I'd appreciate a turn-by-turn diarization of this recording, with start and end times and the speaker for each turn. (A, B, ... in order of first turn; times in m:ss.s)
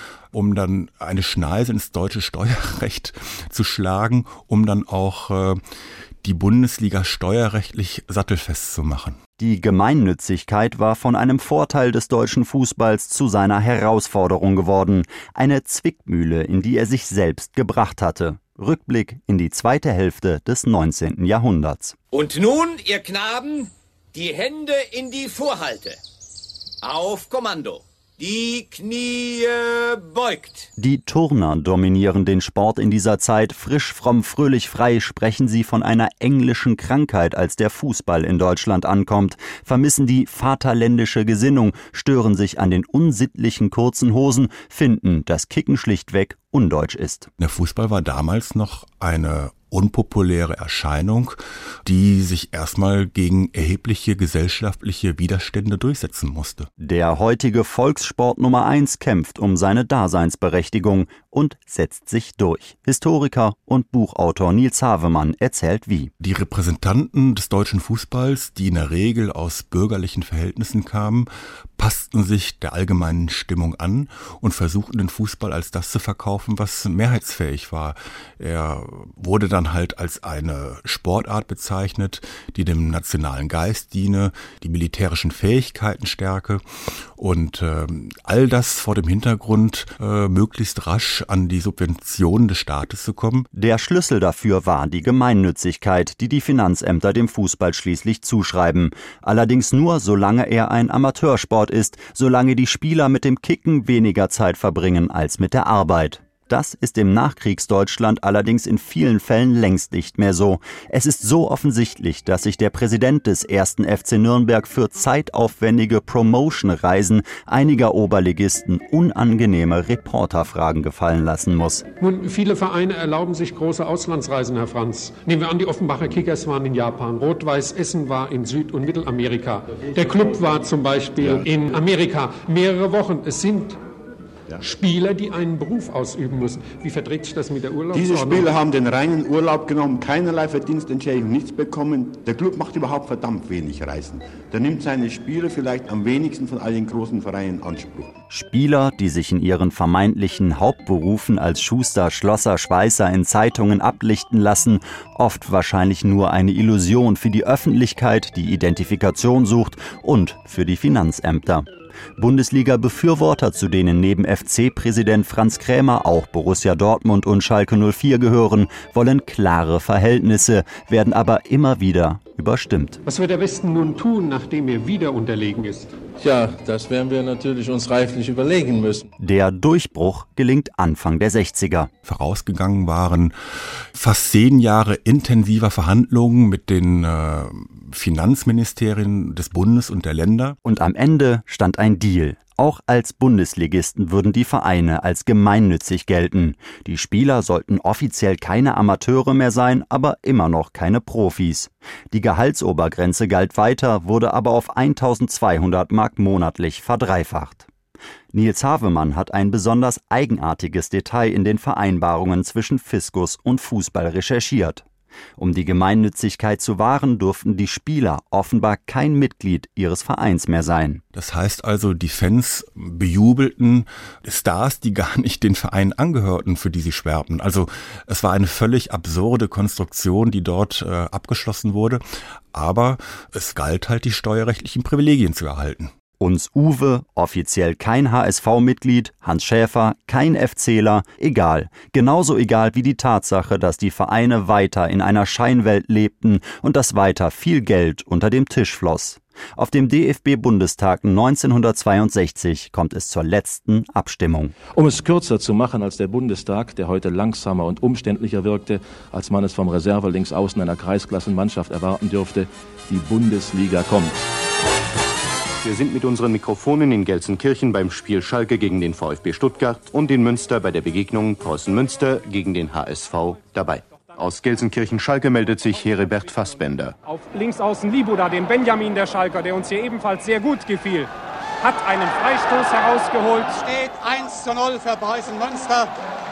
0:00.3-0:05.6 A
0:06.2-0:09.2 A
0:09.4-0:22.0 B
0:22.1-0:26.0 C
0:26.8-0:30.7 C
0:30.8-0:47.3 B
0:47.4-0:56.7 A
0:56.8-1:06.1 B
1:06.2-1:26.6 A
1:27.2-1:33.5 A
1:33.5-2:01.8 B
2:02.0-2:13.8 D
2:11.2-2:11.5 E
2:14.6-2:18.5 D
2:17.9-2:28.1 E
2:28.3-2:41.6 B
2:42.2-2:53.0 B
2:53.0-2:55.9 D
2:56.3-2:59.0 F
2:59.2-3:01.9 B
3:02.1-3:03.3 A
3:04.0-3:10.6 A
3:10.6-3:27.7 B
3:28.3-3:34.8 B
3:35.4-3:41.0 B
3:41.2-3:52.0 A
3:52.5-3:55.9 A
3:56.2-4:14.6 B
4:14.7-4:24.2 G
4:25.6-4:36.9 H
4:37.0-4:41.1 I
4:41.6-4:43.6 I
4:43.5-4:45.9 J